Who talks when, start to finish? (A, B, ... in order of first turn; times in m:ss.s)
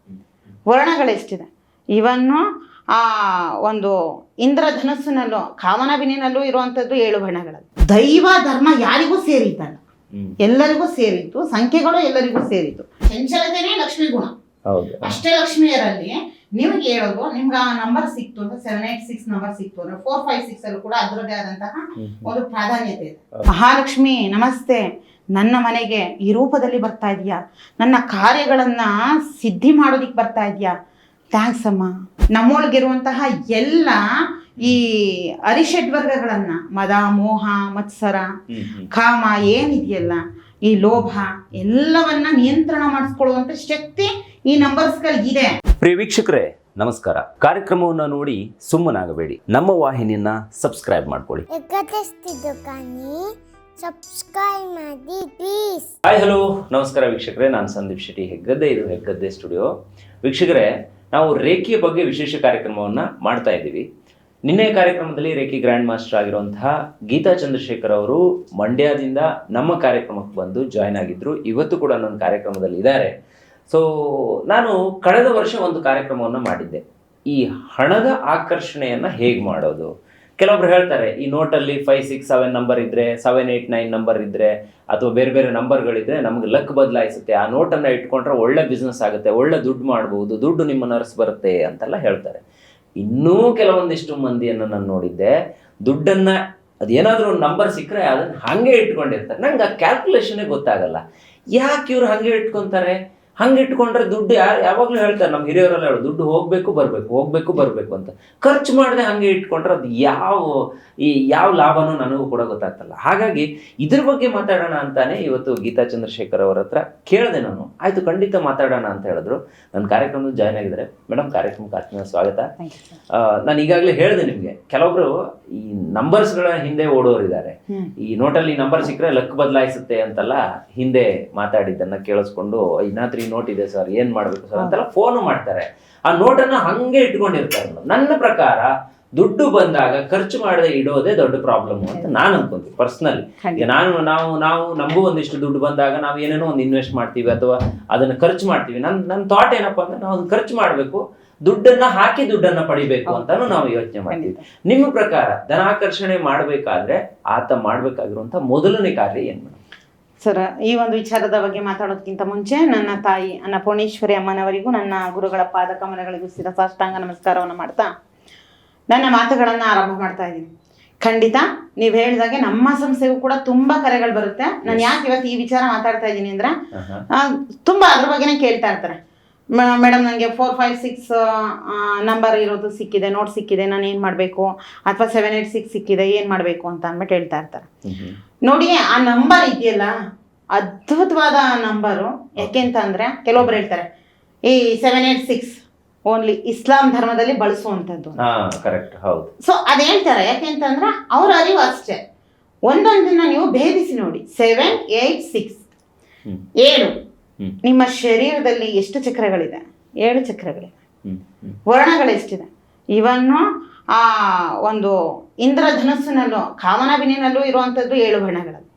0:00.7-0:09.8 A
0:10.4-0:14.3 A
0:14.7-0:15.2 B
0:15.0-0:24.8 A
0:22.0-0:22.3 B
0:25.4-0:30.8 A
0:31.3-0:34.0 A
0:34.6-0:38.3 A
0:38.5-0:38.9 B
0:38.9-0:45.5 A
0:45.8-0:51.5 B
0:51.5-0:53.3 C
0:53.8-0:55.9 C
0:56.1-0:59.7 B
1:00.2-1:03.8 B
1:04.5-1:13.1 B
1:13.7-1:32.4 B
1:33.0-1:35.3 B
1:35.9-1:41.0 B
1:41.6-2:02.5 B
2:02.6-2:03.0 A
2:03.1-2:39.6 B
2:23.4-2:23.7 A
2:33.1-2:34.4 A
2:40.2-2:47.9 A
2:48.9-2:56.6 A
2:54.6-2:54.9 B
2:56.7-2:57.0 B
2:57.1-2:59.0 A
2:59.6-3:07.7 A
3:07.9-3:08.2 B
3:08.5-3:09.9 A
3:10.5-3:13.9 A
3:12.4-3:12.7 B
3:14.5-3:18.2 A
3:18.2-3:19.3 B
3:19.4-3:22.0 A
3:22.7-3:25.6 A
3:26.6-3:26.9 A
3:27.6-3:30.7 A
3:31.0-3:31.6 B
3:31.7-3:33.4 A
3:34.0-3:38.7 A